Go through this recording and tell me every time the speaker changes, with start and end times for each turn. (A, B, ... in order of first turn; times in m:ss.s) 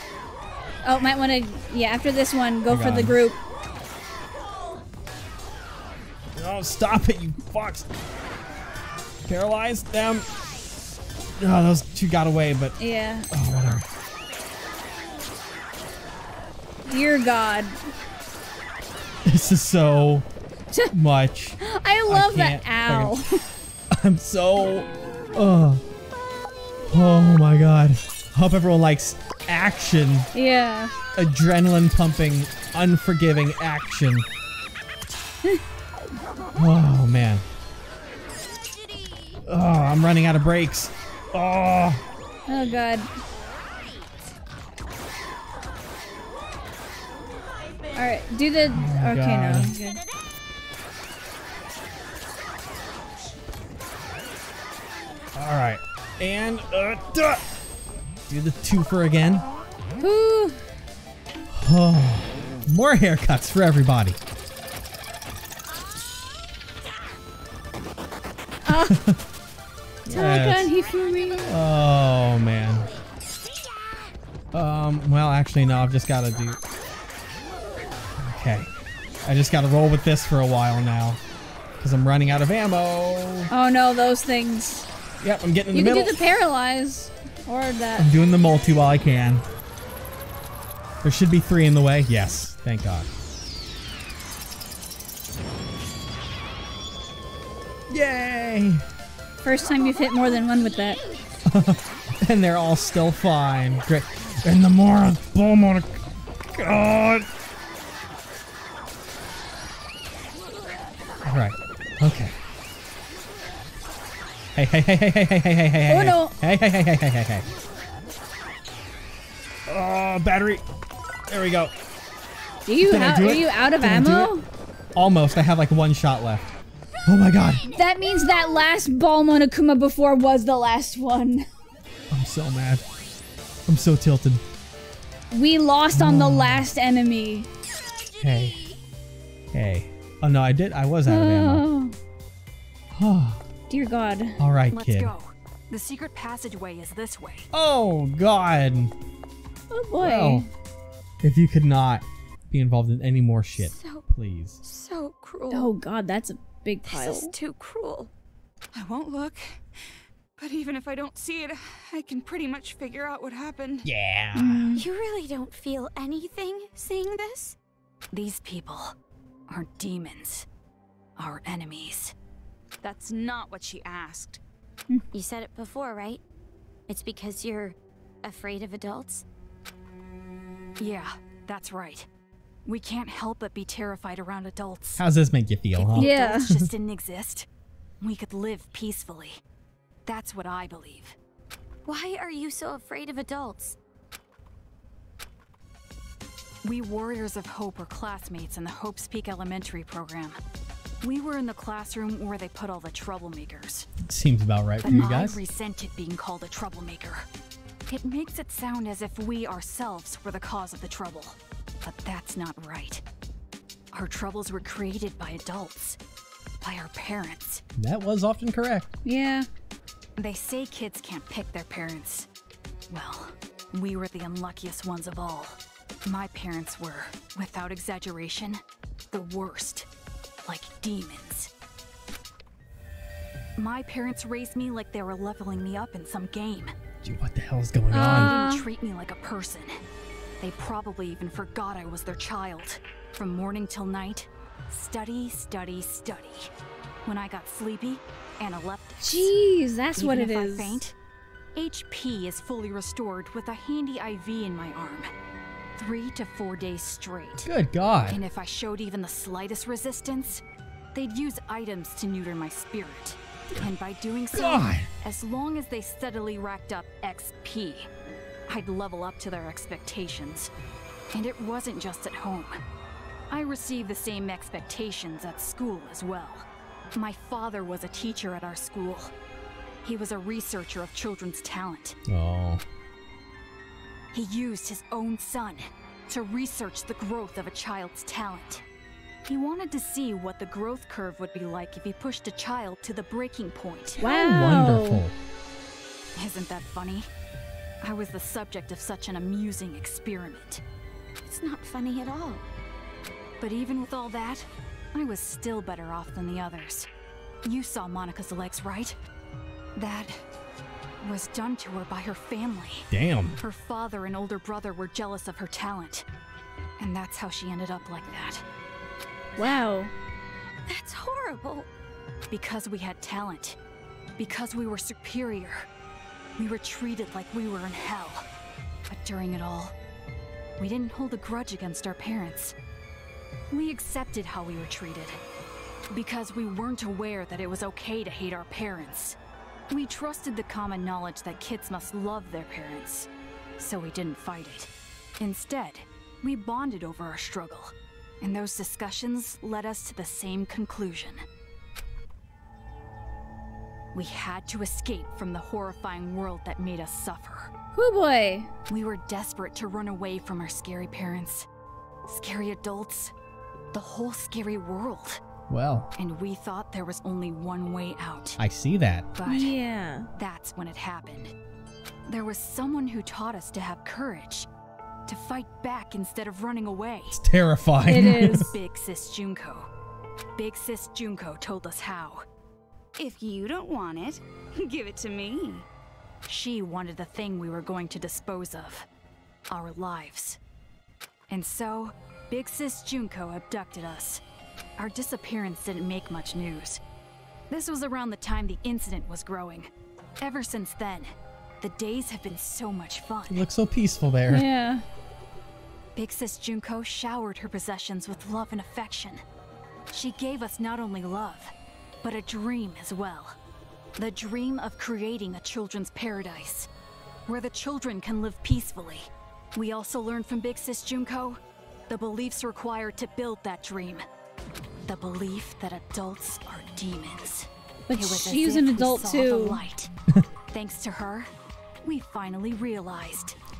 0:00.8-0:03.4 A
0:02.7-0:03.2 B
0:06.3-0:07.9 B
0:09.2-0:10.3 B
0:11.4-0:12.8 B
0:12.8-0:13.3 A
0:13.3-0:13.8 B
0:16.8-0:17.8 A
0:19.2-0:20.3 B
0:20.9-0:23.1 B
0:21.6-0:23.4 A
0:23.9-0:25.8 B
0:26.8-0:30.3 B
0:30.3-0:30.9 A
0:31.2-0:34.2 B
0:36.6-0:37.4 B
0:39.4-0:42.0 B
0:42.5-0:43.1 A
0:47.9-0:50.0 A
0:48.7-0:49.7 B
0:55.3-0:57.4 B
0:58.3-0:59.4 B
1:00.0-1:00.6 A
1:01.5-1:04.2 B
1:08.6-1:09.0 A
1:08.7-1:09.2 B
1:10.0-1:10.7 B
1:10.1-1:11.5 A
1:11.4-1:12.9 B
1:14.5-1:16.6 B
1:18.2-1:18.7 B
1:19.2-1:21.2 B
1:21.8-1:23.5 B
1:23.5-1:24.9 A
1:25.2-1:26.1 B
1:25.7-1:28.1 A
1:28.0-1:29.4 B
1:31.0-1:33.1 B
1:37.9-1:38.8 B
1:39.4-1:41.0 A
1:41.4-1:46.0 B
1:46.5-1:47.3 B
1:51.2-1:52.4 B
1:54.5-1:57.5 B
1:55.9-1:56.3 A
1:59.7-2:00.6 B
2:01.3-2:01.7 B
2:02.6-2:04.4 A
2:02.8-2:04.3 B
2:04.9-2:06.5 B
2:07.0-2:07.7 B
2:07.7-2:11.4 A
2:12.1-2:12.8 B
2:13.7-2:14.4 B
2:15.3-2:17.5 A
2:15.9-2:16.6 B
2:18.2-2:18.6 B
2:19.5-2:21.7 B
2:21.1-2:22.0 A
2:22.9-2:23.4 B
2:23.7-2:24.4 A
2:24.4-2:25.1 B
2:24.7-2:27.5 C
2:27.5-2:28.9 B
2:29.7-2:30.5 A
2:30.0-2:30.5 B
2:31.2-2:34.6 B
2:33.6-2:34.0 D
2:34.6-2:35.7 D
2:35.5-2:37.3 A
2:36.8-2:38.1 D
2:38.7-2:39.6 E
2:40.4-2:43.9 E
2:43.8-2:44.8 B
2:44.3-2:44.8 A
2:44.8-2:47.6 D
2:48.1-2:48.9 C
2:49.5-2:50.4 C
2:51.2-2:52.1 C
2:52.8-2:54.4 E
2:55.1-2:56.2 D
2:56.9-2:59.2 D
3:00.8-3:02.1 C
3:02.6-3:05.0 C
3:05.0-3:06.7 B
3:05.7-3:07.5 C
3:06.0-3:06.5 A
3:08.0-3:09.4 C
3:10.0-3:11.2 C
3:11.8-3:13.8 D
3:16.6-3:20.4 C
3:21.0-3:23.9 C
3:24.0-3:25.4 B
3:24.8-3:27.3 C
3:27.9-3:33.0 C
3:33.9-3:36.0 C
3:36.6-3:37.6 C
3:37.8-3:38.9 B
3:39.0-3:39.5 A
3:40.2-3:42.3 C
3:42.9-3:49.9 C
3:50.4-3:51.5 C
3:53.6-3:56.7 C
3:57.0-3:58.4 B
3:57.9-3:58.7 A
3:57.9-3:59.8 C
4:00.4-4:06.5 C
4:07.0-4:09.3 C
4:09.0-4:10.8 A
4:10.0-4:10.9 C
4:11.5-4:15.1 C
4:15.8-4:17.5 C
4:17.4-4:18.2 B
4:18.1-4:20.4 C
4:20.9-4:27.9 C
4:24.3-4:24.9 B
4:28.5-4:30.5 C
4:31.1-4:32.6 C
4:33.3-4:39.1 C
4:39.8-4:42.0 C
4:42.1-4:42.6 B
4:44.1-4:48.6 C
4:49.3-4:54.0 C
4:54.0-4:55.0 A
4:54.0-4:55.1 B
4:56.2-4:57.1 C
4:57.8-5:00.6 C
5:01.2-5:02.4 D
5:03.4-5:06.9 C
5:07.4-5:09.0 C
5:09.7-5:10.2 C
5:11.0-5:12.9 C
5:12.9-5:13.4 B
5:13.4-5:16.0 C
5:16.8-5:18.4 C
5:19.4-5:19.9 A
5:20.7-5:21.7 D
5:22.3-5:23.6 C
5:24.2-5:25.7 C
5:26.4-5:28.2 C
5:28.9-5:29.7 C
5:30.6-5:32.5 C
5:33.5-5:35.2 C
5:35.9-5:39.2 C
5:39.7-5:43.1 C
5:43.6-5:51.2 C
5:53.9-5:57.5 C
5:57.7-5:58.5 A
5:58.7-6:01.4 C
6:02.1-6:03.1 C
6:03.7-6:05.2 C
6:05.5-6:05.9 B
6:06.0-6:08.4 C
6:08.4-6:09.1 B
6:09.1-6:09.5 C
6:09.2-6:10.1 A
6:10.1-6:11.3 C
6:12.0-6:14.5 C
6:15.1-6:17.2 C
6:17.1-6:18.5 B
6:17.9-6:18.5 A
6:17.9-6:19.7 C
6:20.4-6:22.2 C
6:23.0-6:25.6 E
6:26.3-6:28.8 C
6:29.5-6:30.4 C
6:31.3-6:34.2 C
6:34.8-6:36.8 C
6:37.5-6:39.7 C
6:40.2-6:43.4 C
6:43.3-6:44.4 B
6:44.3-6:44.8 A
6:46.0-6:49.2 C
6:49.9-6:53.4 C
6:54.0-6:56.7 C
6:57.3-7:04.0 C
7:04.8-7:09.9 C
7:07.9-7:09.6 A
7:10.5-7:11.3 C
7:11.8-7:13.4 C